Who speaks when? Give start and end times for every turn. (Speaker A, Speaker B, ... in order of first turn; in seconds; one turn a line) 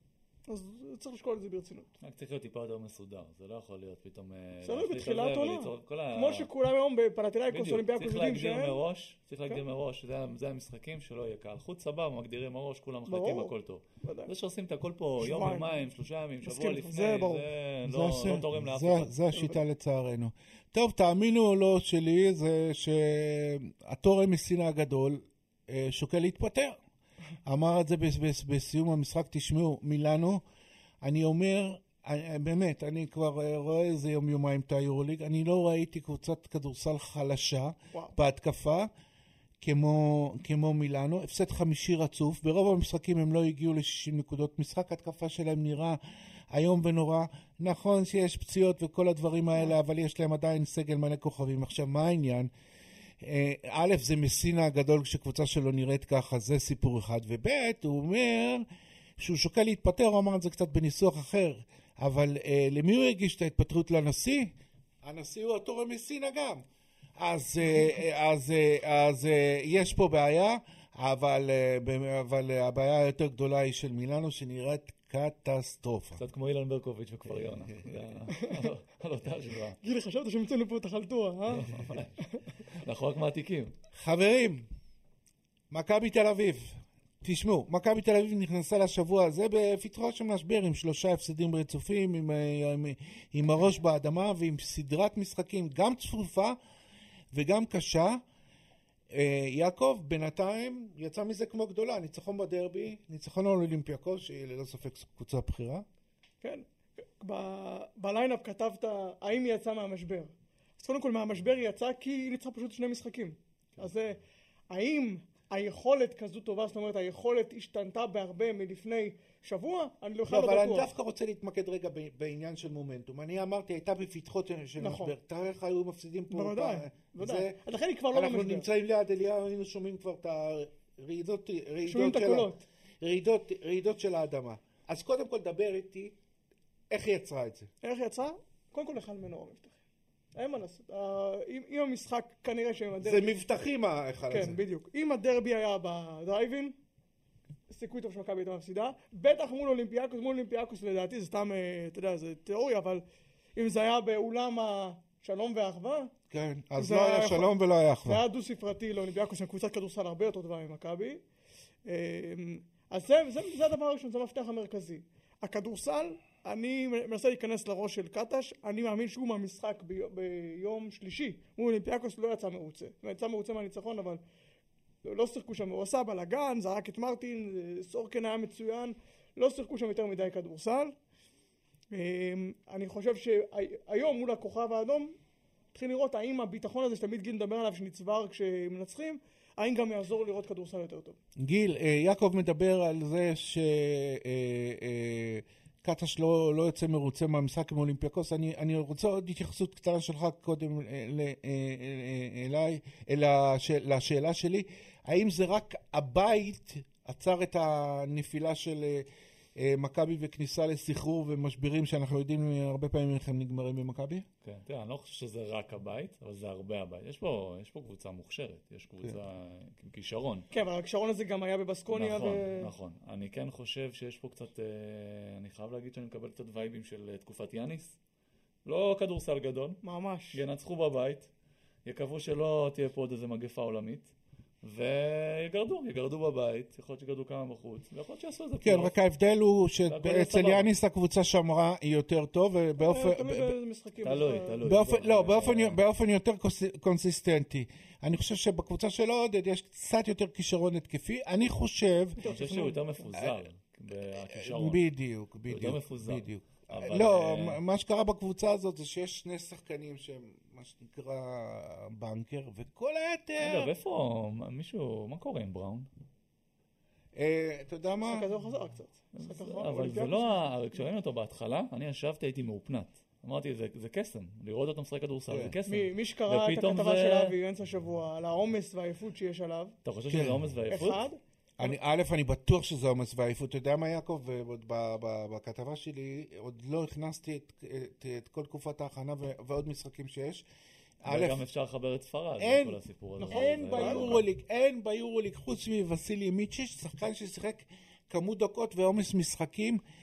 Speaker A: 0.5-1.9
Speaker B: 2.0-6.5
Speaker A: 4.6-8.8
Speaker B: 7.5-19.1
Speaker A: 13.1-13.5
Speaker A: 14.0-14.3
Speaker A: 15.2-15.8
Speaker A: 16.4-17.4
Speaker C: 17.8-26.8
Speaker A: 19.3-19.6
Speaker C: 27.4-30.4
Speaker C: 31.0-38.9
Speaker C: 39.6-46.0
Speaker C: 46.5-52.5
Speaker C: 53.2-58.6
Speaker C: 59.2-64.5
Speaker C: 65.0-66.6
Speaker C: 67.2-76.2
Speaker B: 76.2-79.8
Speaker C: 77.3-77.9
Speaker A: 78.3-78.7
Speaker A: 79.8-82.3
Speaker B: 81.5-83.7
Speaker C: 83.9-84.6
Speaker C: 85.7-96.5
Speaker C: 97.3-98.2
Speaker C: 99.1-105.8
Speaker A: 107.2-114.2
Speaker A: 114.7-120.9
Speaker C: 120.3-127.6
Speaker A: 124.8-125.1
Speaker A: 126.3-128.7
Speaker C: 128.1-132.5
Speaker A: 131.8-132.6
Speaker C: 133.0-136.2
Speaker C: 136.9-137.7
Speaker A: 137.8-139.8
Speaker A: 140.3-143.3
Speaker C: 143.0-144.6
Speaker A: 144.3-146.8
Speaker A: 147.7-153.0
Speaker A: 153.5-156.1
Speaker C: 156.3-158.2
Speaker A: 156.8-157.5
Speaker A: 158.0-161.2
Speaker A: 161.8-174.2
Speaker A: 175.0-180.9
Speaker A: 181.9-185.1
Speaker A: 185.7-191.2
Speaker C: 191.4-214.2
Speaker B: 214.4-220.5
Speaker A: 220.5-222.7
Speaker B: 221.9-228.0
Speaker B: 228.6-229.8
Speaker A: 229.8-230.4
Speaker B: 230.3-231.3
Speaker B: 231.8-238.9
Speaker C: 238.6-243.6
Speaker B: 239.8-240.7
Speaker A: 242.8-244.6
Speaker B: 244.0-245.8
Speaker C: 244.6-252.2
Speaker A: 252.2-253.1
Speaker B: 252.2-254.8
Speaker C: 254.1-263.7
Speaker B: 255.5-257.6
Speaker B: 263.4-265.9
Speaker C: 267.1-268.3
Speaker A: 268.0-270.4
Speaker B: 269.1-277.4
Speaker C: 275.3-275.6
Speaker A: 275.7-279.8
Speaker B: 279.8-281.1
Speaker C: 280.1-280.5
Speaker A: 280.7-281.7
Speaker C: 281.6-290.4
Speaker C: 291.0-291.4
Speaker B: 291.1-294.2
Speaker C: 292.4-292.8
Speaker A: 293.2-294.2
Speaker C: 293.3-299.8